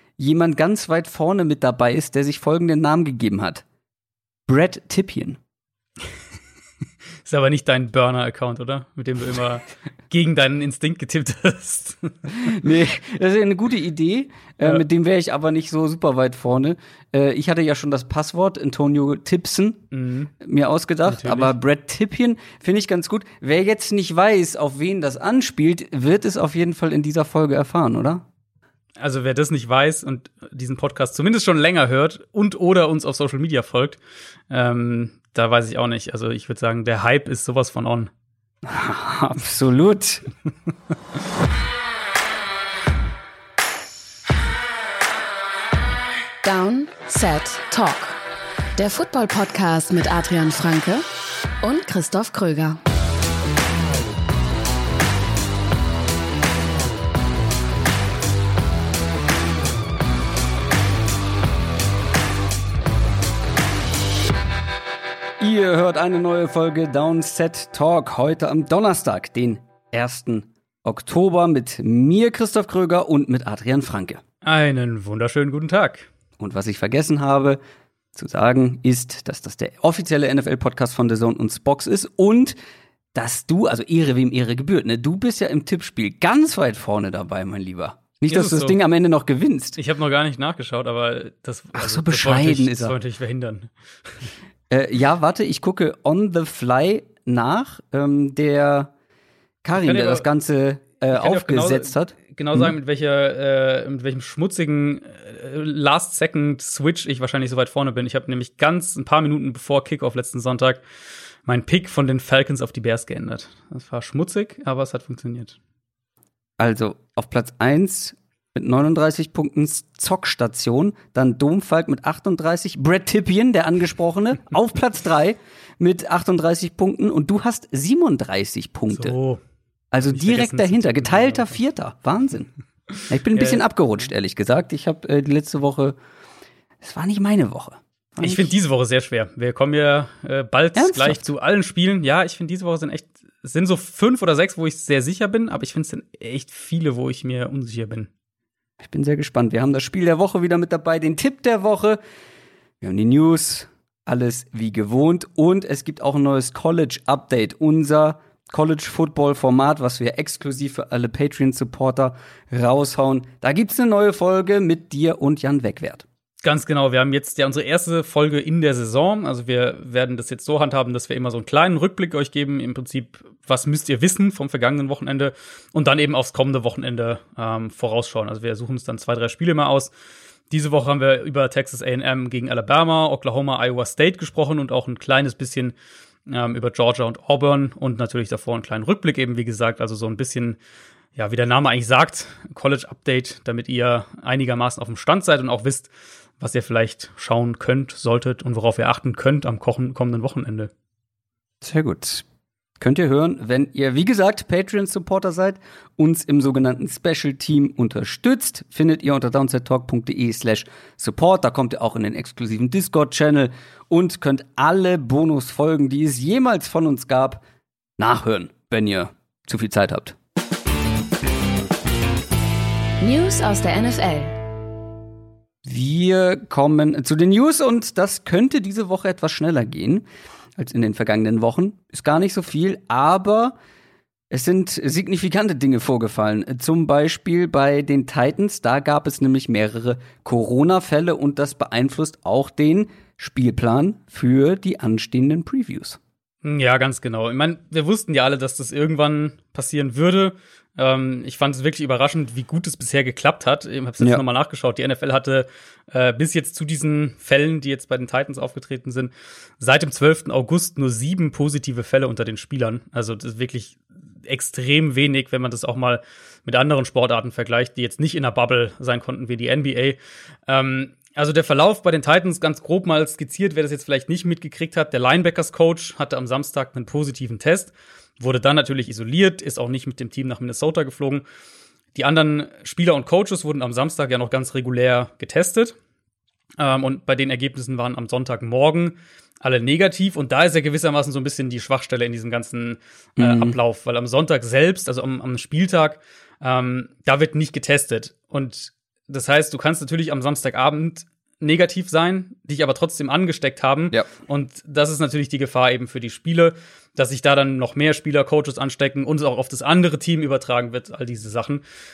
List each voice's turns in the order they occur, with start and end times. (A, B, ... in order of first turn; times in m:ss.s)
0:00.2-0:03.6 A
0:04.5-0:05.4 A
0:07.2-0:12.6 B
0:12.3-0:19.8 A
0:19.9-0:20.3 B
0:20.4-0:28.2 A
0:21.0-0:21.5 B
0:29.0-0:34.0 B
0:34.5-0:38.1 B
0:38.6-0:40.2 A
0:46.4-0:48.2 C
0:48.7-0:51.0 C
0:51.6-0:52.8 C
1:05.4-1:14.2 A
1:14.4-1:16.1 B
1:16.4-1:17.6 A
1:18.1-1:22.6 A
1:23.1-1:29.8 A
1:28.3-1:28.8 B
1:29.8-1:33.7 B
1:31.7-1:32.9 A
1:34.7-1:38.9 A
1:39.6-1:42.7 A
1:39.7-1:40.3 B
1:41.1-1:50.8 B
1:51.4-1:55.6 B
1:56.6-2:09.1 A
2:08.9-2:09.4 B
2:09.9-2:12.5 A
2:10.1-2:11.5 B
2:13.1-2:15.9 A
2:13.3-2:13.6 B
2:16.8-2:18.5 A
2:18.2-2:28.1 B
2:20.7-2:21.2 A
2:28.8-2:32.0 A
2:32.8-2:46.0 A
2:46.4-2:59.9 B
3:00.5-3:05.8 B
3:06.3-3:10.6 B
3:11.2-3:20.7 B
3:21.6-3:22.2 A
3:22.8-3:37.4 A
3:38.0-3:40.2 A
3:43.0-3:44.4 C
3:45.6-3:50.0 A
3:50.6-3:53.5 A
3:54.3-4:06.0 A
4:06.4-4:41.2 B
4:41.9-4:45.8 B
4:46.6-5:11.6 B
4:53.2-4:53.6 A